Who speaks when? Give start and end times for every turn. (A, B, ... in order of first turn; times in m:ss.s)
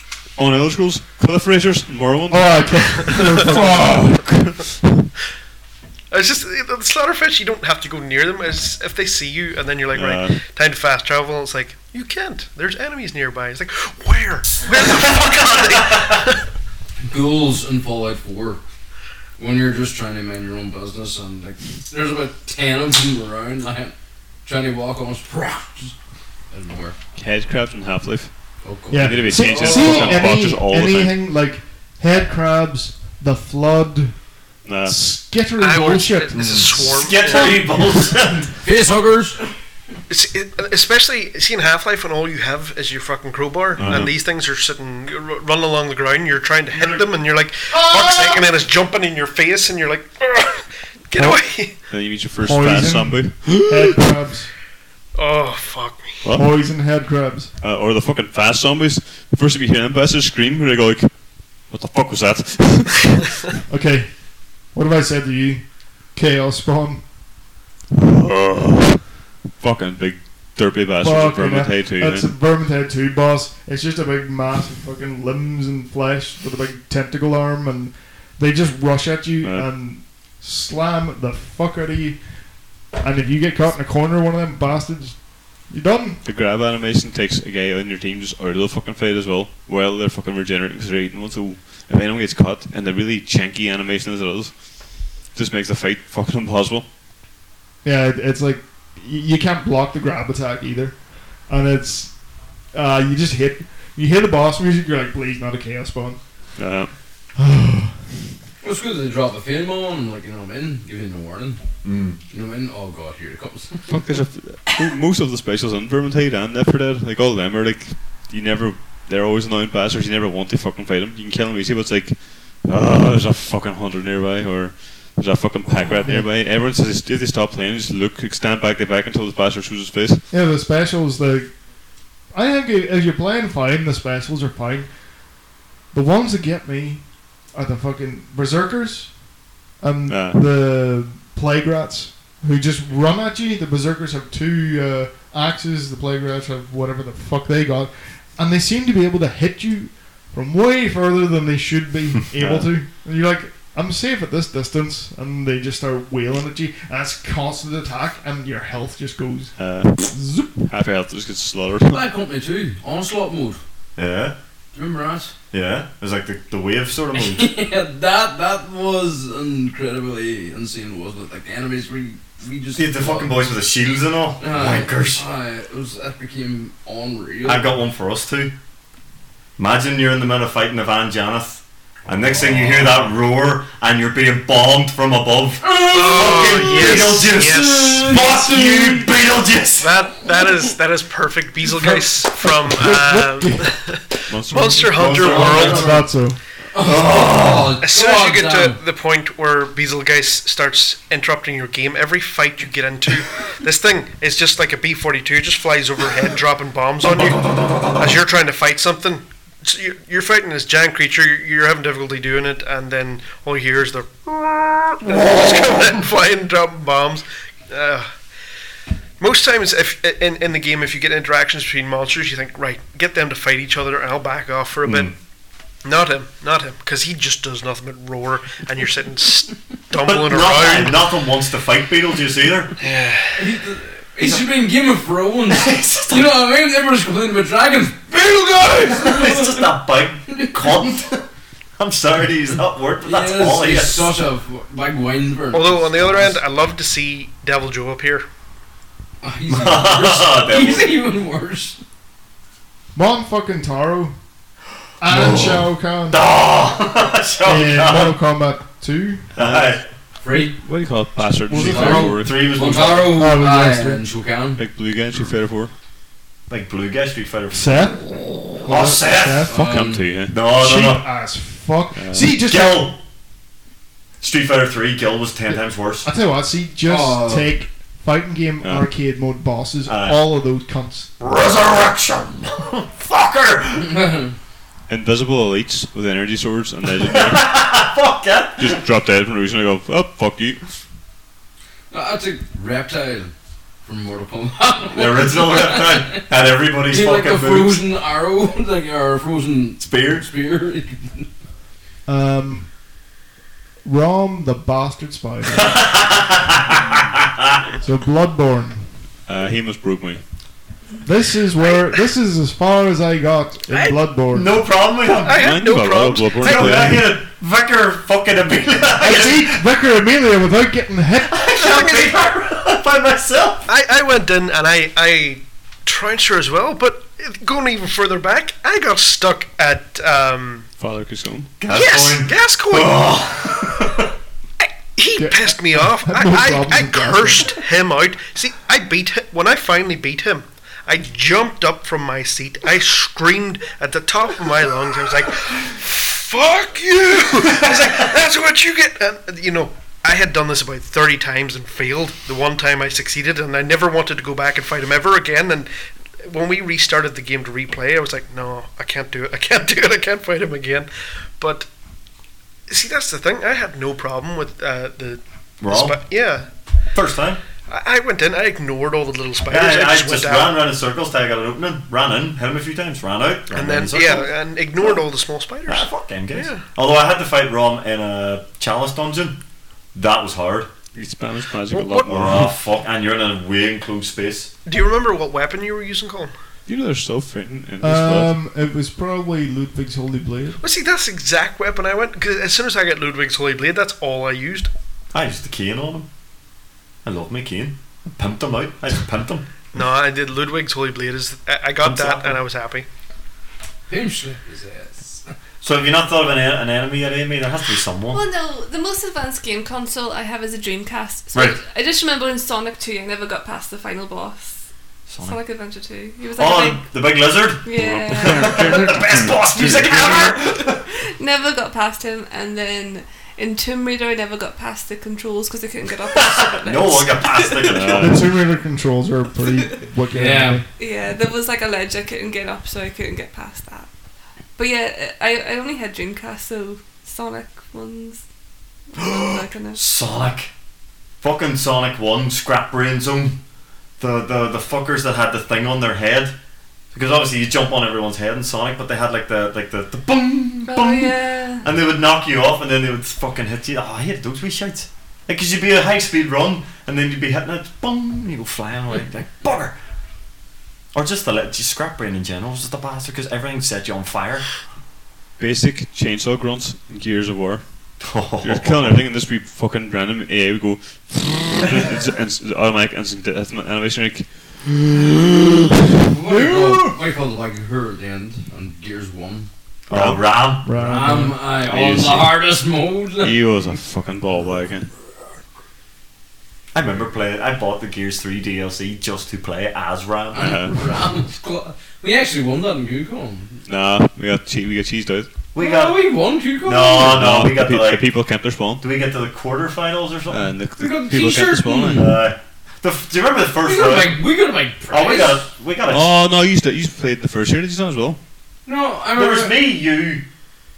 0:00.4-0:05.0 A
0:02.3-0:04.2 B
0:06.1-0:16.4 C
0:09.9-0:10.4 A
0:14.8-0:16.0 D
0:17.0-0:18.6 E
0:19.4-0:25.9 E
0:26.5-0:27.0 E
0:27.1-0:28.3 A
0:28.6-0:30.2 E
0:28.9-0:34.2 B
0:28.9-0:31.2 A
0:34.6-0:35.0 A
0:34.8-0:37.0 B
0:35.6-0:37.6 C
0:36.3-0:38.5 D
0:38.6-0:39.4 E
0:40.1-0:51.7 C
0:43.8-0:44.1 A
0:46.7-0:47.0 D
0:47.7-0:48.4 D
0:51.9-0:53.6 A
0:52.4-0:54.5 B
0:55.1-0:56.2 C
0:56.2-0:56.5 A
0:56.3-0:57.5 B
0:57.6-1:03.3 A
1:03.7-1:07.0 B
1:07.9-1:12.3 A
1:11.0-1:22.2 B
1:19.4-1:19.9 A
1:22.9-1:26.2 B
1:26.2-1:36.8 A
1:37.8-1:42.2 B
1:42.7-1:46.2 B
1:46.6-1:46.9 A
1:47.4-1:48.1 B
1:48.6-1:51.6 E
1:51.8-1:52.2 D
1:52.3-1:53.9 E
1:53.9-2:10.2 A
2:06.0-2:06.3 B
2:10.3-2:11.6 B
2:12.2-2:15.0 B
2:15.9-2:19.2 B
2:19.8-2:40.6 B
2:20.1-2:20.4 A
2:32.4-2:32.7 A
2:39.6-2:42.0 A
2:41.9-2:43.6 E
2:44.0-2:44.3 D
2:44.7-2:45.3 E
2:45.5-2:47.5 D
2:47.1-2:53.4 E
2:52.7-2:55.2 D
2:54.4-2:57.7 E
2:57.4-2:58.5 D
2:59.6-3:09.9 D
3:05.6-3:09.1 E
3:05.9-3:08.1 C
3:09.8-3:16.0 C
3:11.7-3:13.8 B
3:14.3-3:15.8 A
3:15.0-3:16.1 E
3:15.6-3:16.4 B
3:16.7-3:18.8 E
3:16.8-3:17.8 D
3:17.8-3:38.1 C
3:27.2-3:28.0 D
3:35.1-3:35.8 D
3:39.2-3:45.1 C
3:44.8-3:45.1 D
3:45.8-3:51.0 C
3:50.0-3:52.7 D
3:52.8-3:53.5 C
3:53.4-3:59.7 E
3:55.5-3:56.4 D
3:58.8-4:01.2 D
4:00.3-4:00.8 E
4:01.8-4:04.1 D
4:03.0-4:06.4 E
4:05.5-4:08.2 C
4:09.2-4:11.8 E
4:09.5-4:11.0 D
4:12.9-4:14.2 B
4:15.0-4:16.2 B
4:15.1-4:18.2 D
4:17.4-4:19.3 B
4:19.3-4:19.8 D
4:19.4-4:19.7 A
4:20.2-4:20.6 E
4:20.6-4:22.6 A
4:21.5-4:22.2 B
4:21.5-4:24.6 E
4:21.6-4:23.2 D
4:23.1-4:24.0 B
4:24.6-4:25.7 A
4:26.5-4:29.5 D
4:27.5-4:29.6 B
4:29.4-4:30.2 E
4:29.5-4:30.4 A
4:30.3-4:31.1 D
4:30.4-4:32.9 B
4:32.0-4:32.4 A
4:32.3-4:33.0 D
4:34.2-4:36.1 D
4:36.0-4:41.1 B
4:36.8-4:37.5 E
4:38.6-4:38.9 A
4:39.8-4:40.2 D
4:41.2-4:44.0 D
4:43.8-4:44.3 E
4:44.9-4:47.4 A
4:47.0-4:48.8 D
4:48.6-4:50.6 A
4:51.9-4:53.3 E
4:53.8-4:56.2 E
4:54.9-4:57.8 D
4:56.9-5:01.3 E
4:59.8-5:00.3 D
5:02.0-5:02.7 B
5:03.8-5:05.8 B
5:05.5-5:07.6 D
5:07.8-5:08.9 B
5:09.3-5:10.2 A
5:11.0-5:14.6 B
5:14.3-5:15.4 D
5:15.2-5:16.9 C
5:15.3-5:17.2 A
5:16.4-5:19.6 D
5:18.9-5:21.3 B
5:21.2-5:23.7 D
5:21.5-5:22.2 C
5:23.7-5:30.7 C
5:30.8-5:31.5 A
5:31.6-5:34.1 D
5:31.7-5:33.1 C
5:35.0-5:55.7 C
5:35.2-5:37.5 B
5:56.2-6:01.7 C
6:02.7-6:06.5 C
6:05.6-6:06.0 D
6:06.9-6:07.4 D
6:07.7-6:10.6 C
6:09.5-6:14.3 D
6:13.5-6:16.6 C
6:15.7-6:19.4 D
6:19.9-6:20.7 D
6:20.9-6:22.6 A
6:21.7-6:22.1 C
6:22.0-6:24.5 D
6:24.6-6:26.3 C
6:26.7-6:28.3 A
6:27.8-6:30.6 B
6:30.6-6:34.7 C
6:35.1-6:36.1 D
6:37.0-6:39.6 D
6:39.7-6:42.8 C
6:41.8-6:42.4 D
6:43.9-6:45.3 E
6:45.6-6:48.2 D
6:48.1-6:54.6 F
6:55.1-6:55.4 D
6:55.2-6:56.8 F
6:56.4-7:00.8 D
6:57.6-6:58.6 F
6:57.7-7:00.3 A
7:00.0-7:08.0 F
7:06.1-7:08.1 D
7:07.6-7:08.3 A
7:08.0-7:10.6 B
7:10.1-7:10.6 E
7:10.8-7:13.9 F
7:14.6-7:18.2 F
7:18.9-7:19.8 F
7:19.0-7:20.5 D
7:21.2-7:23.4 D
7:24.0-7:26.4 D
7:26.9-7:39.8 D
7:30.6-7:31.6 F
7:40.9-7:44.6 D
7:45.4-7:47.8 A
7:48.0-7:49.0 D
7:48.4-7:54.9 A
7:56.1-7:59.5 E
7:56.2-7:56.9 B
7:59.9-8:00.7 D
7:59.9-8:00.3 A
8:00.6-8:01.4 B
8:00.8-8:03.4 E
8:01.6-8:02.4 A
8:03.2-8:04.9 A
8:06.7-8:10.6 D
8:10.3-8:13.6 E
8:10.4-8:10.8 A
8:13.6-8:15.3 A
8:15.5-8:16.0 D
8:15.6-8:17.2 E
8:16.6-8:18.2 D
8:17.0-8:18.8 A
8:18.8-8:20.5 D
8:20.3-8:22.2 A
8:20.8-8:22.2 E
8:22.0-8:24.2 D
8:23.6-8:25.4 E
8:24.9-8:26.2 D
8:25.9-8:28.2 A
8:28.6-8:29.6 E
8:29.1-8:30.2 D